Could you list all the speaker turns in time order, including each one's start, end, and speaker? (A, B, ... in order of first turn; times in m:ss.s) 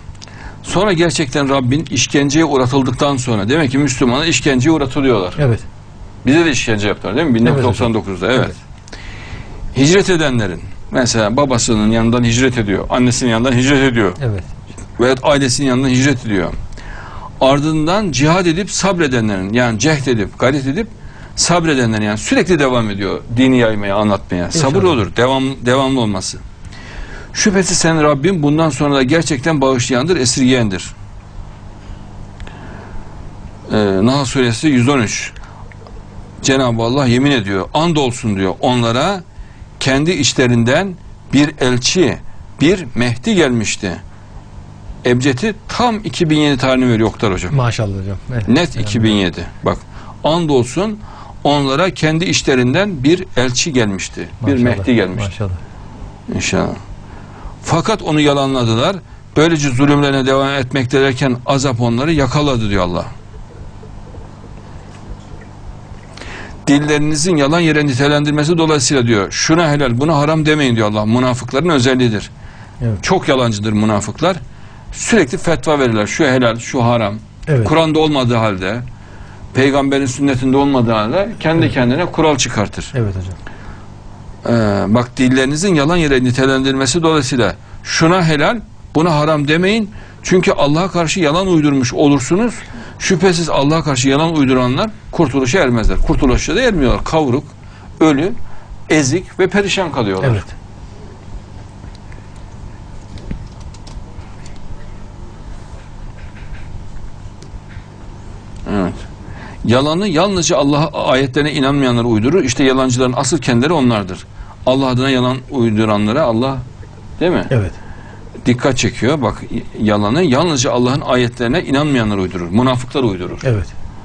0:00.6-0:05.4 A
0:05.4-0:05.6 B
0:06.2-0:08.6 A
0:07.4-0:07.9 B
0:09.7-0:14.2 A
0:14.2-0:14.5 B
0:15.0-0:16.6 A
0:17.4-0:26.4 A
0:24.5-0:24.9 B
0:27.3-0:30.9 A
0:33.7-0:35.4 A
0:36.4-0:39.2 A
0:39.8-0:44.0 A
0:45.0-0:47.6 A
0:47.5-0:49.1 B
0:48.4-0:55.3 A
0:54.4-0:55.6 B
0:56.3-0:56.8 A
0:57.6-1:03.1 A
1:06.7-1:12.3 A
1:13.0-1:14.4 A
1:14.9-1:18.8 A
1:19.5-1:22.9 A
1:22.9-1:23.4 B
1:24.4-1:38.4 A
1:38.9-1:40.5 A
1:40.2-1:40.5 B
1:48.7-1:49.0 A
1:49.6-1:56.6 A
1:57.2-1:57.5 A
1:57.5-1:57.8 B
1:58.4-2:03.4 A
2:03.4-2:03.7 B